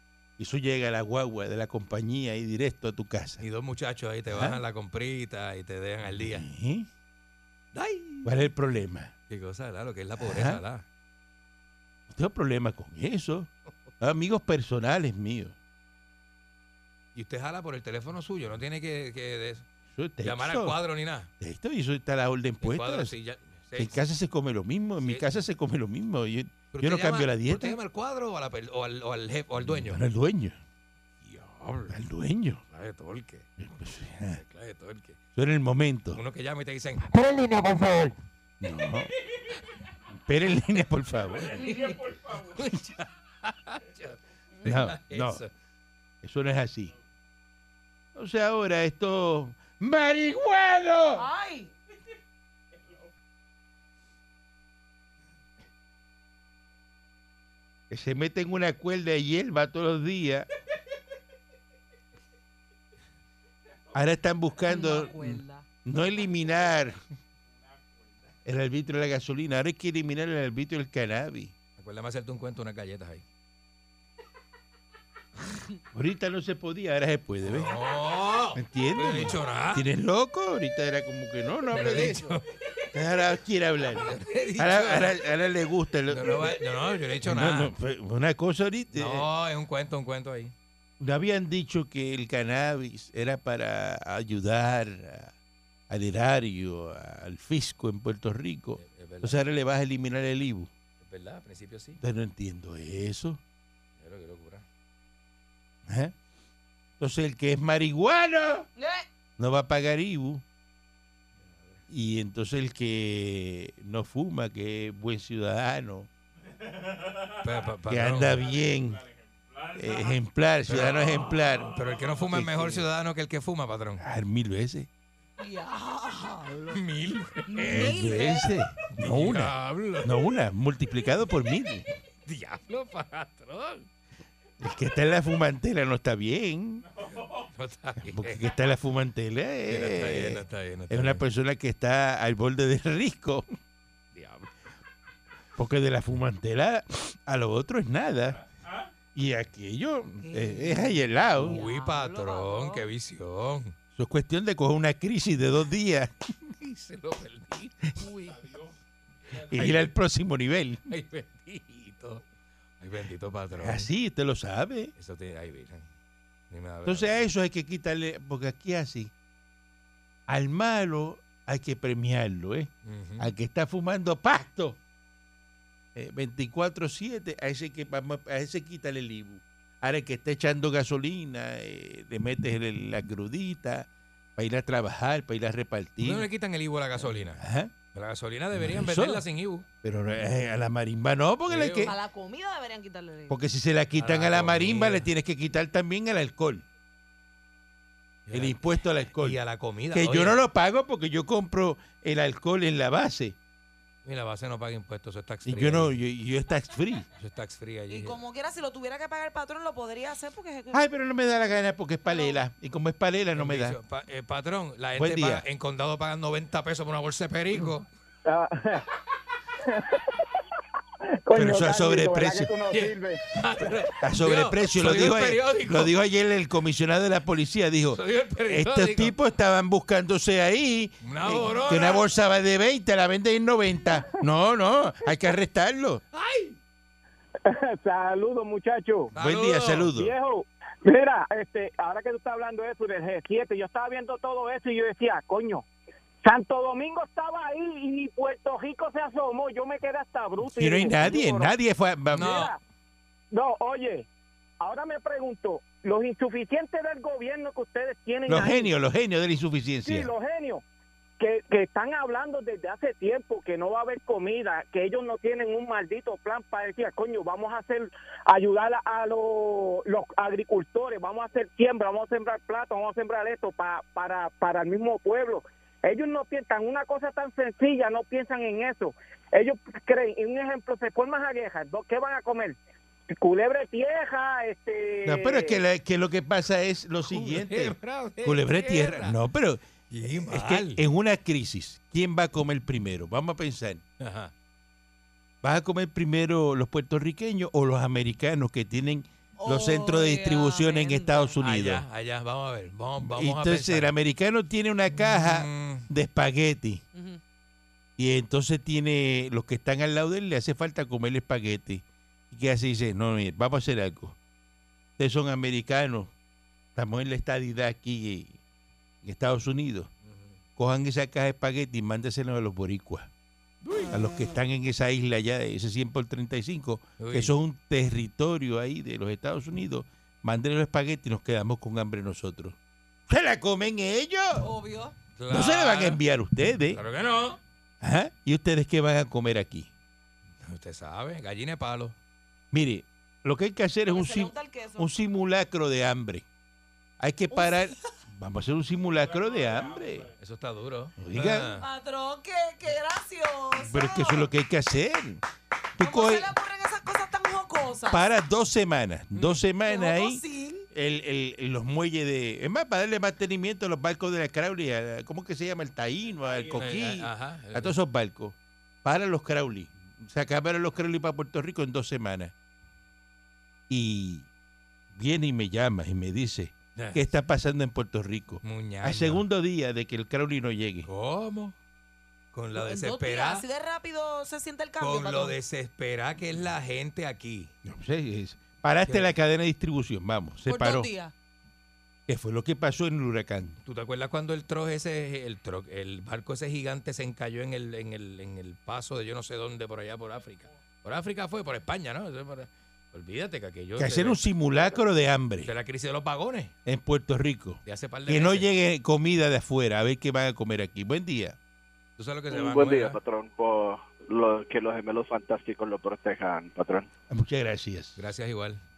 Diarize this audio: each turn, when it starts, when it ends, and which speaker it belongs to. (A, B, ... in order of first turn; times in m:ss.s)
0:00.4-0:03.4 A
0:03.4-0:06.4 B
0:04.3-0:04.6 A
0:06.1-0:06.9 A
0:07.7-0:08.3 B
0:08.2-0:09.1 A
0:09.3-0:10.8 B
0:10.2-0:10.6 A
0:12.1-0:15.5 A
0:17.1-0:19.6 B
0:19.9-0:20.8 A
0:20.2-0:21.3 B
0:21.4-0:23.1 A
0:22.6-0:24.0 B
0:23.7-0:27.8 A
0:25.0-0:25.4 B
0:26.7-0:30.0 B
0:29.7-0:30.6 A
0:31.2-0:32.0 B
0:31.9-0:32.6 A
0:32.7-0:33.5 B
0:33.6-0:34.4 A
0:34.3-0:35.2 B
0:35.3-0:36.2 A
0:36.1-0:37.2 B
0:38.6-0:39.1 A
0:40.2-0:41.7 A
0:41.4-0:45.5 B
0:41.6-0:42.0 C
0:44.6-0:45.4 A
0:46.2-0:46.9 A
0:48.1-0:51.2 A
0:51.1-0:51.7 C
0:57.9-1:00.5 A
1:03.9-1:07.0 A
1:04.6-1:05.6 C
1:08.4-1:11.5 A
1:11.8-1:13.2 B
1:15.9-1:17.7 A
1:17.4-1:19.8 B
1:18.5-1:22.3 A
1:21.7-1:22.5 B
1:22.9-1:26.6 A
1:23.9-1:25.2 B
1:26.1-1:27.7 B
1:27.2-1:29.3 A
1:28.9-1:30.5 B
1:31.0-1:35.3 A
1:35.9-1:40.7 A
1:38.8-1:39.4 B
1:41.0-1:42.0 B
1:42.0-1:43.4 A
1:44.0-1:44.6 B
1:45.9-1:46.1 A
1:47.0-1:48.7 A
1:48.8-1:49.0 C
1:49.4-1:50.4 A
1:51.4-1:51.8 B
1:51.9-1:56.1 A
1:57.4-1:58.5 B
1:57.9-1:59.0 A
1:59.7-2:02.9 A
2:00.7-2:04.0 B
2:04.0-2:04.9 A
2:05.4-2:06.8 C
2:06.7-2:08.1 B
2:07.5-2:08.6 C
2:07.7-2:11.9 A
2:08.9-2:10.2 B
2:12.2-2:13.9 B
2:14.6-2:16.8 A
2:17.3-2:18.5 B
2:18.0-2:23.4 A
2:19.7-2:21.2 B
2:24.1-2:24.5 B
2:25.6-2:28.4 A
2:29.1-2:31.6 A
2:30.2-2:32.8 C
2:31.4-2:33.7 B
2:33.9-2:36.3 A
2:36.6-2:37.9 B
2:38.0-2:38.4 C
2:39.3-2:39.9 B
2:39.4-2:40.8 A
2:40.9-2:42.2 B
2:42.8-2:43.9 B
2:43.6-2:44.9 A
2:45.0-2:45.8 B
2:46.5-2:47.2 B
2:46.8-2:49.1 A
2:50.3-2:54.8 A
2:52.8-2:53.3 B
2:55.9-3:06.3 A
3:06.0-3:07.4 B
3:07.0-3:07.7 A
3:07.9-3:09.6 B
3:08.5-3:09.2 A
3:09.8-3:11.9 A
3:11.5-3:11.9 B
3:11.8-3:13.4 C
3:13.3-3:16.6 A
3:14.0-3:15.1 B
3:18.3-3:18.6 B
3:18.3-3:19.4 A
3:19.2-3:20.4 B
3:19.9-3:23.4 A
3:24.0-3:26.0 B
3:25.4-3:27.1 A
3:27.2-3:28.2 B
3:27.9-3:30.8 C
3:30.7-3:33.8 A
3:32.0-3:32.4 C
3:33.3-3:37.9 B
3:35.0-3:35.4 A
3:38.2-3:38.8 D
3:39.6-3:40.2 D
3:41.2-3:43.2 D
3:41.3-3:42.5 A
3:42.7-3:45.9 B
3:44.0-3:56.0 A
3:47.9-3:49.1 B
3:51.0-3:52.0 B
3:56.1-3:56.6 B
3:57.4-3:59.1 D
3:59.1-3:59.9 B
3:59.1-4:00.1 A
3:59.9-4:05.6 D
4:06.2-4:11.5 D
4:10.4-4:12.4 A
4:12.1-4:12.5 B
4:12.2-4:12.6 D
4:13.3-4:14.1 D
4:14.6-4:18.7 D
4:18.3-4:20.1 A
4:19.8-4:20.6 D
4:21.2-4:42.6 D
4:43.2-4:45.6 D
4:45.0-4:53.8 A
4:47.1-4:49.2 B
4:49.9-4:50.8 B
4:54.0-4:54.3 B
4:55.4-5:01.8 A
4:59.4-5:01.4 C
5:01.4-5:03.9 B
5:03.0-5:06.8 A
5:05.0-5:05.9 B
5:06.9-5:07.2 C
5:08.0-5:14.2 A
5:15.0-5:16.1 A
5:16.8-5:18.4 A
5:19.0-5:19.9 A
5:20.0-5:20.3 B
5:20.6-5:23.1 A
5:23.6-5:32.6 A
5:27.0-5:27.3 B
5:33.1-5:34.4 A
5:34.4-5:34.9 C
5:35.2-5:36.0 B
5:35.3-5:36.8 A
5:36.7-5:37.4 B
5:37.8-5:39.7 A
5:40.4-5:41.9 B
5:42.5-5:46.2 A
5:43.9-5:44.9 C
5:47.0-5:50.1 A
5:47.3-5:47.8 C
5:50.2-5:51.6 B
5:51.0-5:51.5 A
5:51.3-5:54.3 C
5:53.5-5:55.2 A
5:55.8-5:56.3 A
5:55.8-5:58.0 C
5:57.9-6:12.3 A
5:59.1-5:59.4 B
5:59.6-6:00.7 C
6:06.5-6:07.7 B
6:13.7-6:14.3 A
6:14.9-6:20.9 A
6:16.8-6:17.0 B
6:18.4-6:19.2 B
6:20.8-6:21.5 B
6:22.3-6:23.4 B
6:22.6-6:25.4 C
6:24.8-6:27.5 B
6:27.6-6:30.9 A
6:30.4-6:31.1 C
6:32.1-6:33.5 A
6:33.6-6:44.2 B
6:43.8-6:45.5 A
6:45.4-6:46.5 B
6:46.6-6:51.4 A
6:47.6-6:48.5 B
6:52.0-6:53.0 B
6:52.3-6:56.9 E
6:57.1-6:58.0 A
6:58.0-6:58.6 B